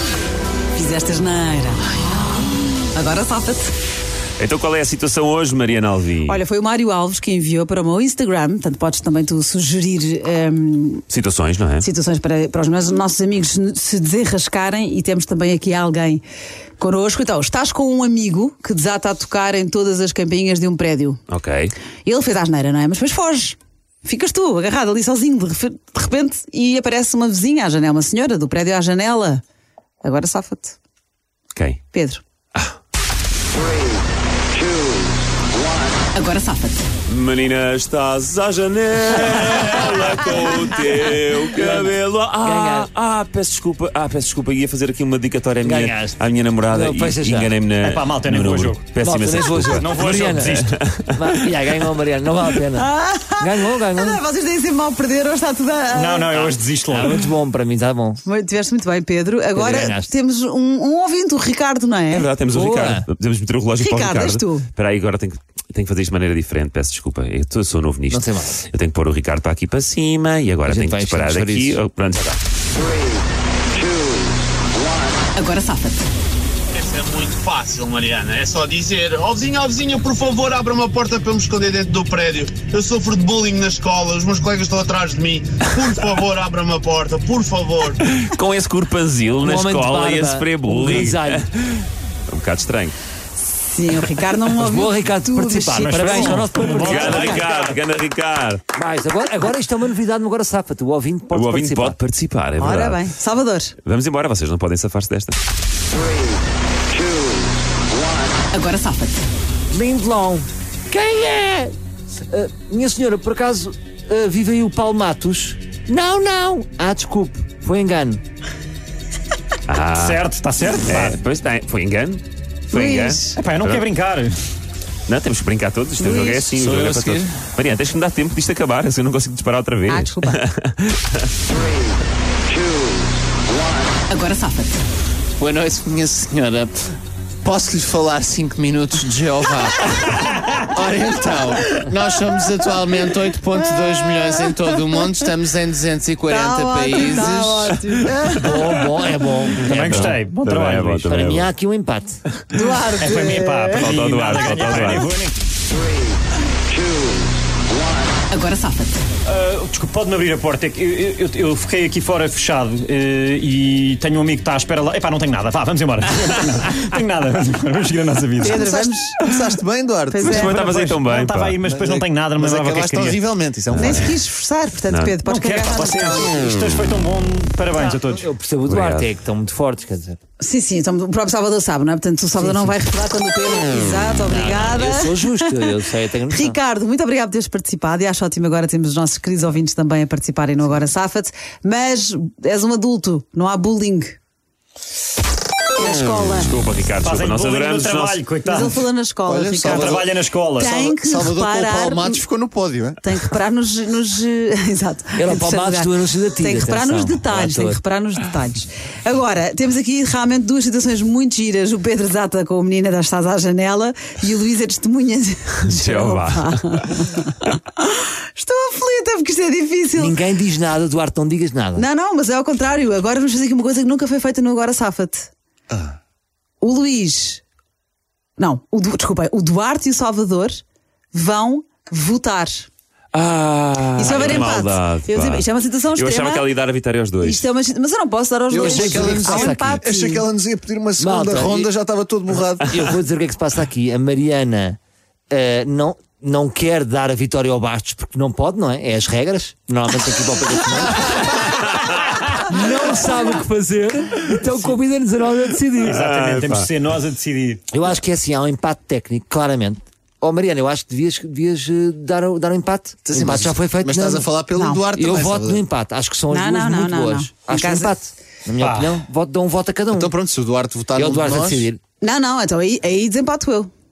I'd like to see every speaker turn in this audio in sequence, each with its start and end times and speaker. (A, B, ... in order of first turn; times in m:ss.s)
0:00.7-0:03.7 A
0:04.4-0:06.4 B
0:06.3-0:11.1 A
0:11.1-0:11.9 B
0:11.8-0:16.2 A
0:16.8-0:21.2 A
0:21.3-0:21.8 B
0:22.0-0:29.4 A
0:30.0-0:30.8 A
0:31.6-0:31.8 B
0:31.9-0:32.2 A
0:36.2-0:36.7 C
0:36.2-0:36.7 A
0:37.1-0:49.9 B
0:41.6-0:42.9 D
0:45.6-0:47.5 D
0:47.8-0:48.8 C
0:49.0-0:50.6 D
0:49.5-0:50.7 C
0:50.7-0:51.2 B
0:51.2-0:54.2 D
0:52.8-0:56.5 A
0:55.9-0:57.2 C
0:56.9-0:58.2 D
0:58.2-1:02.3 A
0:59.5-1:00.1 D
1:02.1-1:12.4 B
1:02.5-1:03.1 D
1:03.8-1:04.7 A
1:08.1-1:08.6 D
1:10.6-1:11.8 D
1:15.4-1:16.0 C
1:16.8-1:28.0 E
1:28.1-1:32.9 B
1:29.4-1:31.5 D
1:33.4-1:37.4 A
1:34.6-1:37.3 D
1:35.8-1:37.8 C
1:36.8-1:38.6 B
1:38.7-1:42.0 D
1:41.3-1:43.0 B
1:42.6-1:43.8 A
1:43.8-1:45.4 B
1:48.5-1:49.0 C
1:48.8-1:49.1 A
1:49.7-1:51.7 D
1:52.3-1:58.2 D
1:59.7-2:00.2 B
2:00.0-2:01.2 C
2:00.8-2:03.8 B
2:02.7-2:03.4 A
2:03.4-2:04.4 C
2:05.1-2:11.3 B
2:06.0-2:06.5 A
2:06.6-2:07.3 F
2:09.9-2:10.4 A
2:14.1-2:14.5 C
2:14.3-2:14.7 A
2:15.4-2:16.7 F
2:15.4-2:16.7 E
2:17.4-2:19.5 F
2:17.7-2:19.7 E
2:20.6-2:27.7 F
2:21.3-2:27.6 E
2:26.3-2:28.8 A
2:28.4-2:30.2 D
2:29.6-2:31.1 C
2:29.7-2:31.5 B
2:31.1-2:32.2 D
2:32.5-2:33.9 A
2:33.0-2:35.4 C
2:33.8-2:35.1 B
2:38.3-2:48.7 C
2:48.4-2:49.2 A
2:48.5-2:50.4 F
2:50.1-2:50.6 A
2:50.2-2:51.6 B
2:50.2-2:53.2 C
2:51.6-2:54.1 F
2:53.7-2:54.1 B
2:53.8-2:56.3 A
2:54.9-2:55.2 B
2:55.2-2:58.3 C
2:58.0-3:00.2 D
2:58.7-2:59.1 B
3:00.4-3:05.8 A
3:02.4-3:02.8 D
3:04.3-3:06.6 D
3:06.3-3:14.2 A
3:15.8-3:16.5 A
3:16.4-3:18.2 B
3:17.0-3:18.8 C
3:18.4-3:22.2 A
3:19.3-3:20.1 F
3:19.6-3:20.7 C
3:20.6-3:23.0 F
3:23.0-3:40.2 A
3:25.2-3:27.8 D
3:35.6-3:36.9 B
3:40.0-3:41.9 D
3:41.8-3:45.3 A
3:46.6-3:47.4 A
3:48.4-3:52.7 A
3:53.1-3:57.5 B
3:54.0-3:56.5 A
3:57.2-4:00.3 A
3:58.5-4:03.0 F
3:58.5-3:59.8 D
4:01.0-4:01.7 D
4:02.6-4:04.8 D
4:05.3-4:11.5 D
4:12.4-4:16.0 D
4:15.8-4:17.6 C
4:16.0-4:16.7 B
4:17.7-4:24.3 D
4:23.1-4:25.6 F
4:24.5-4:24.8 A
4:25.0-4:30.1 D
4:26.3-4:27.9 A
4:28.6-4:28.9 C
4:29.9-4:31.7 F
4:31.0-4:31.8 D
4:32.0-4:33.7 A